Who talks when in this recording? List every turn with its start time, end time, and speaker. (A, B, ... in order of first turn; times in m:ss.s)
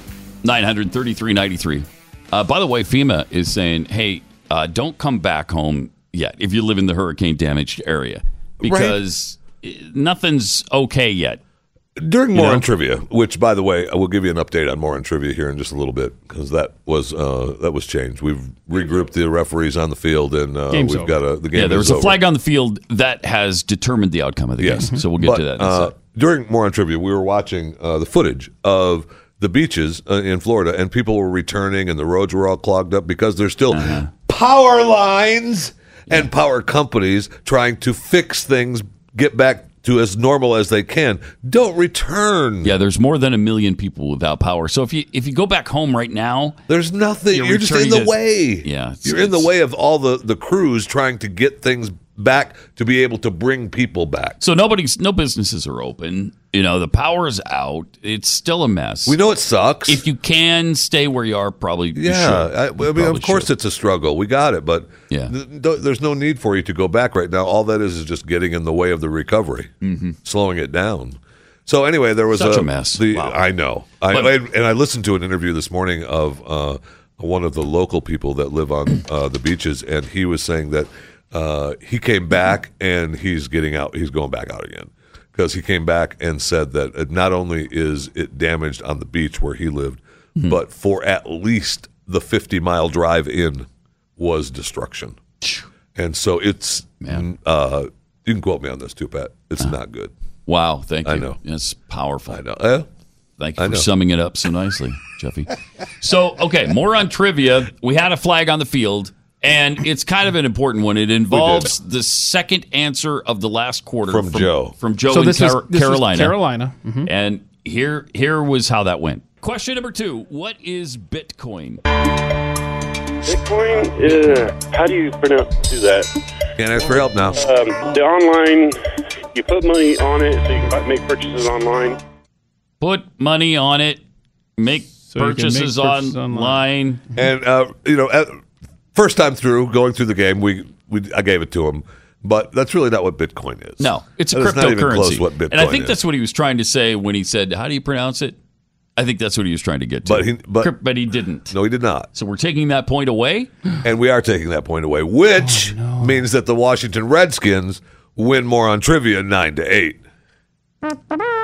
0:00.4-0:11.4 A
0:08.6-0:09.0 B
0:12.0-0:22.2 B
0:12.3-0:12.7 A
0:20.7-0:21.1 C
0:21.5-0:25.9 A
0:24.6-0:42.7 B
0:33.7-0:34.1 A
0:42.6-0:46.6 A
0:46.7-0:54.4 B
0:47.3-0:49.5 A
0:54.4-0:59.2 A
0:59.1-1:00.0 B
0:59.9-1:03.5 A
1:02.0-1:09.7 B
1:09.8-1:10.2 A
1:10.2-1:35.2 B
1:12.3-1:13.4 A
1:14.1-1:14.4 A
1:36.0-1:40.1 B
1:37.0-1:37.3 A
1:40.5-1:42.4 A
1:41.0-1:41.4 B
1:42.3-1:42.9 B
1:43.4-1:56.4 A
1:43.6-1:43.9 B
1:51.3-1:51.7 B
1:54.1-1:54.8 B
1:55.1-1:57.1 C
1:57.1-2:01.8 A
2:03.3-2:06.1 D
2:06.6-2:07.4 B
2:07.4-2:08.8 D
2:09.3-2:12.0 D
2:12.8-2:14.0 A
2:14.6-2:17.0 A
2:15.1-2:16.6 C
2:17.2-2:18.4 B
2:18.9-2:26.0 B
2:23.8-2:28.4 A
2:29.0-2:31.6 A
2:30.0-2:30.7 B
2:31.5-2:32.1 B
2:32.1-2:33.5 A
2:33.8-2:40.0 B
2:35.4-2:36.2 C